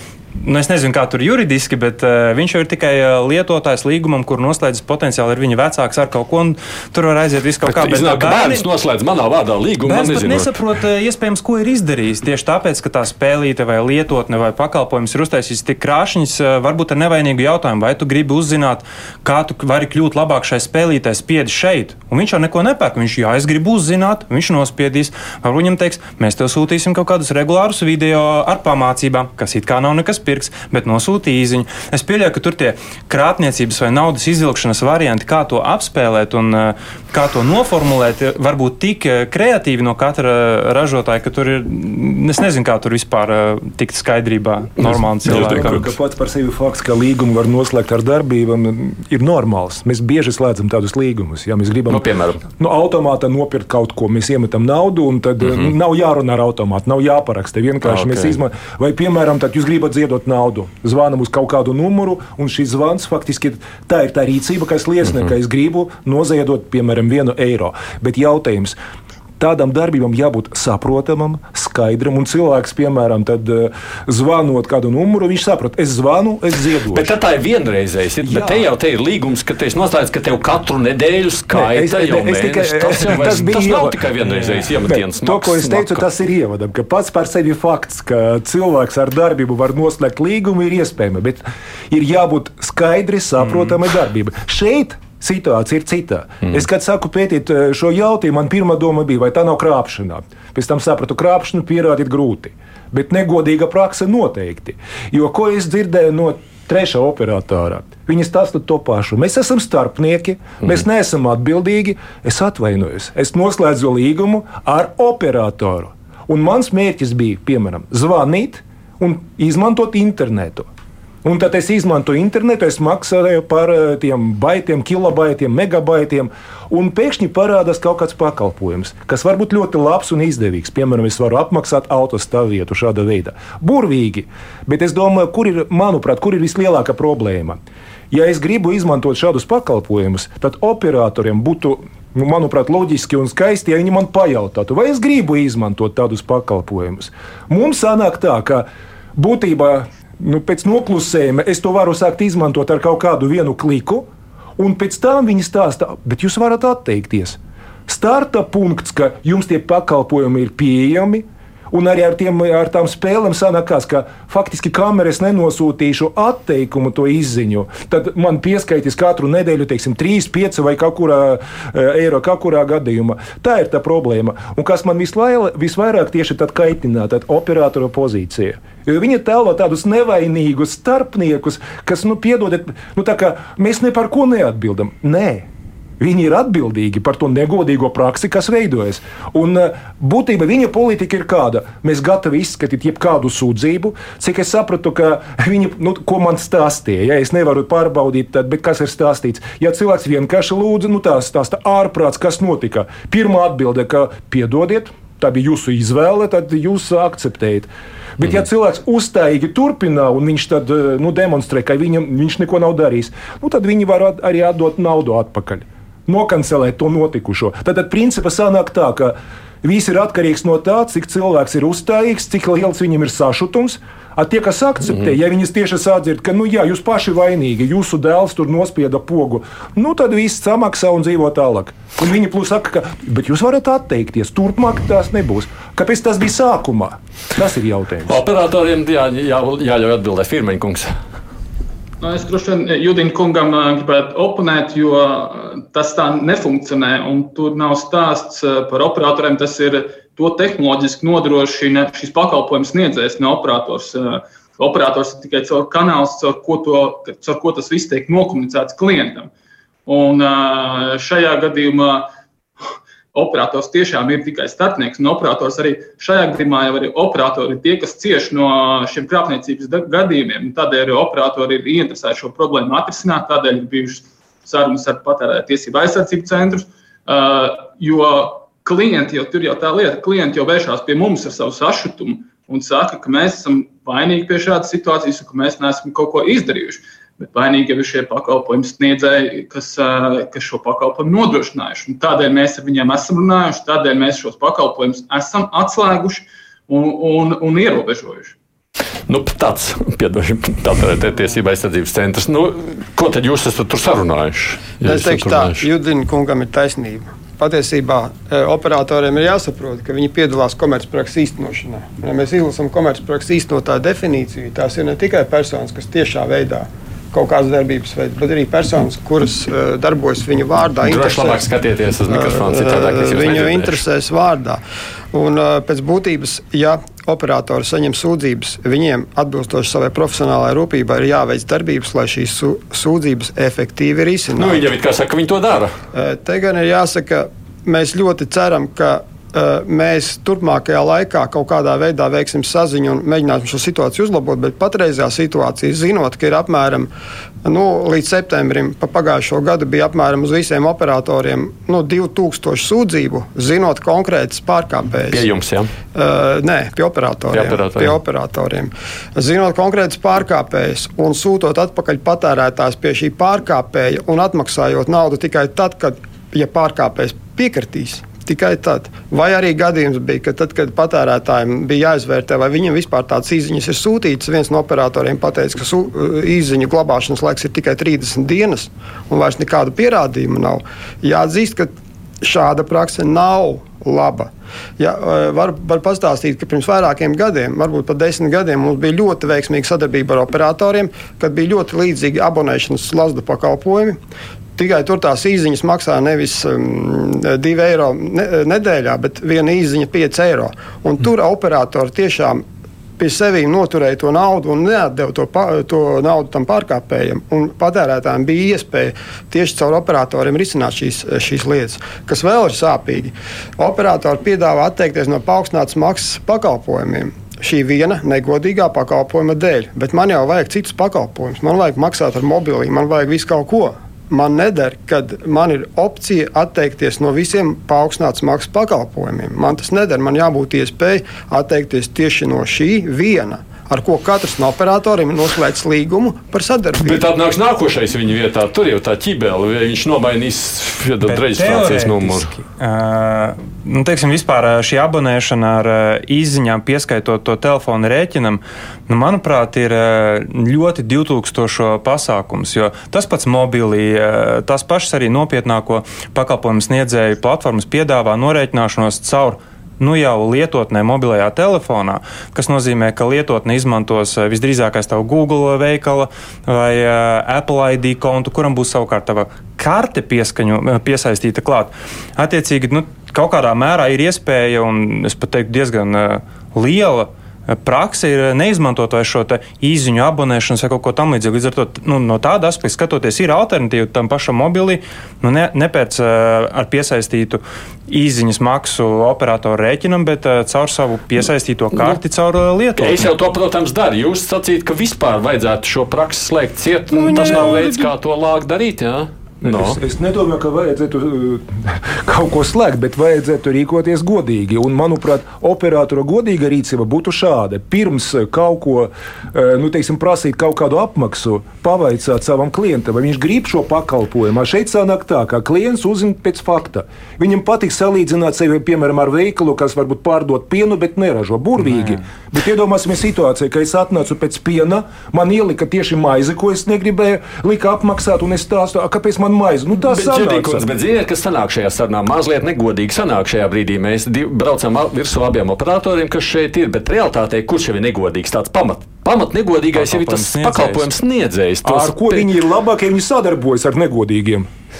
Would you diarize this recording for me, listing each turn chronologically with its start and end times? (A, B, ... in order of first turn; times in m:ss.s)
0:00.4-0:08.6 A
0:07.6-0:10.6 B
0:09.8-0:45.8 A
0:44.8-0:45.9 B
0:45.2-1:08.8 C
0:51.9-0:52.4 B
0:57.8-0:58.4 B
1:09.4-1:17.1 C
1:16.9-1:26.0 B
1:18.2-1:18.6 C
1:21.5-2:00.7 C
2:01.2-3:05.5 C
3:06.0-3:58.2 C
3:58.1-4:00.9 B
4:02.0-4:19.3 D
4:19.8-4:22.1 D
4:22.6-4:58.4 D
4:59.1-5:05.6 B
5:04.8-5:21.4 E
5:20.8-5:23.8 B
5:22.1-5:24.6 E
5:25.1-5:34.7 E
5:34.4-5:35.7 B
5:35.9-5:46.9 E
5:47.4-5:55.2 E
5:55.1-5:55.7 B
5:55.9-6:21.7 E
5:57.3-5:58.0 B
6:22.2-6:34.0 E
6:34.6-6:42.4 E
6:43.0-7:17.0 E
7:16.8-7:22.3 B
7:21.0-8:13.1 A
8:12.8-8:19.8 B
8:17.0-8:17.8 C
8:19.4-8:50.6 C
8:49.9-9:02.3 B
8:59.7-9:00.9 A
9:01.6-9:04.5 C